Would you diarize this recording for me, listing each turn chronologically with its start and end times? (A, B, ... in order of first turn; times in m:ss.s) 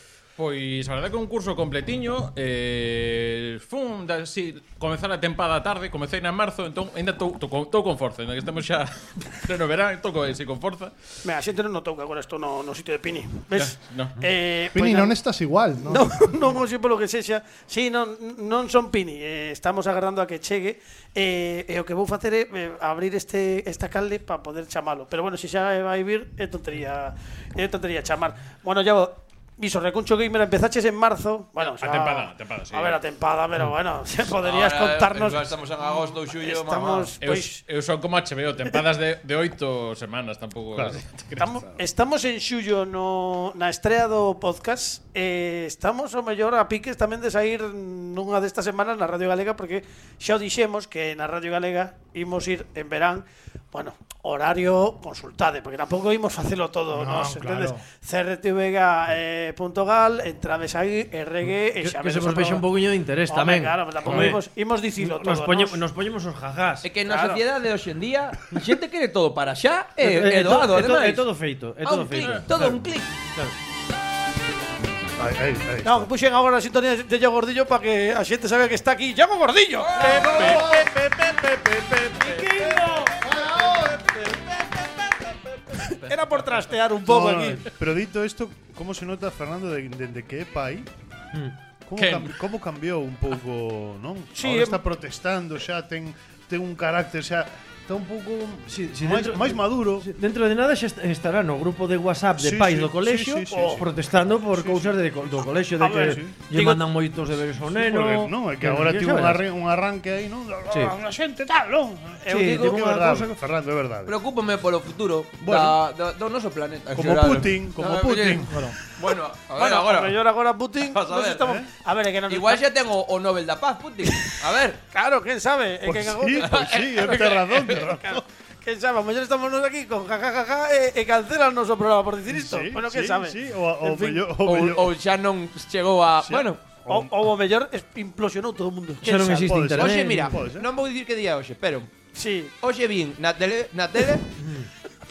0:00.4-0:10.9 A
0:11.2-0:15.1 B
0:13.5-0:14.2 A
0:14.7-0:16.4 C
0:15.8-0:35.5 B
0:31.6-0:33.0 A
0:34.4-0:37.1 D
0:36.3-0:37.6 B
0:37.2-0:41.7 A
0:40.7-0:41.0 E
0:41.4-1:02.6 B
0:56.9-0:57.8 C
1:01.4-1:04.4 F
1:03.3-1:05.8 B
1:05.0-1:06.9 F
1:06.8-1:11.2 D
1:07.0-1:07.4 B
1:10.0-1:12.5 F
1:11.8-1:13.1 D
1:15.2-1:16.1 E
1:15.8-1:20.9 B
1:19.8-1:20.5 D
1:20.1-1:20.6 A
1:20.3-1:20.8 C
1:22.1-1:23.2 B
1:23.0-1:24.2 C
1:25.8-1:27.6 B
1:27.0-1:30.9 E
1:31.8-1:40.1 E
1:32.0-1:32.3 A
1:34.3-1:34.8 B
1:38.7-1:49.4 F
1:42.4-1:45.0 E
1:43.5-1:43.8 B
1:45.8-1:46.8 B
1:45.9-1:46.3 E
1:47.7-1:54.1 E
1:52.2-1:52.7 B
1:52.3-1:53.4 F
1:54.0-2:00.2 D
1:55.4-1:55.8 E
1:56.9-1:58.7 E
1:59.6-2:02.6 B
2:00.9-2:01.5 D
2:02.3-2:04.8 D
2:04.9-2:14.2 B
2:05.8-2:08.2 E
2:06.4-2:07.7 D
2:12.3-2:14.9 E
2:14.4-2:16.6 D
2:16.2-2:17.1 E
2:16.9-2:19.5 B
2:19.0-2:20.4 F
2:19.3-2:20.7 E
2:19.8-2:21.9 D
2:22.1-2:22.5 B
2:22.6-2:24.2 D
2:24.4-2:24.7 F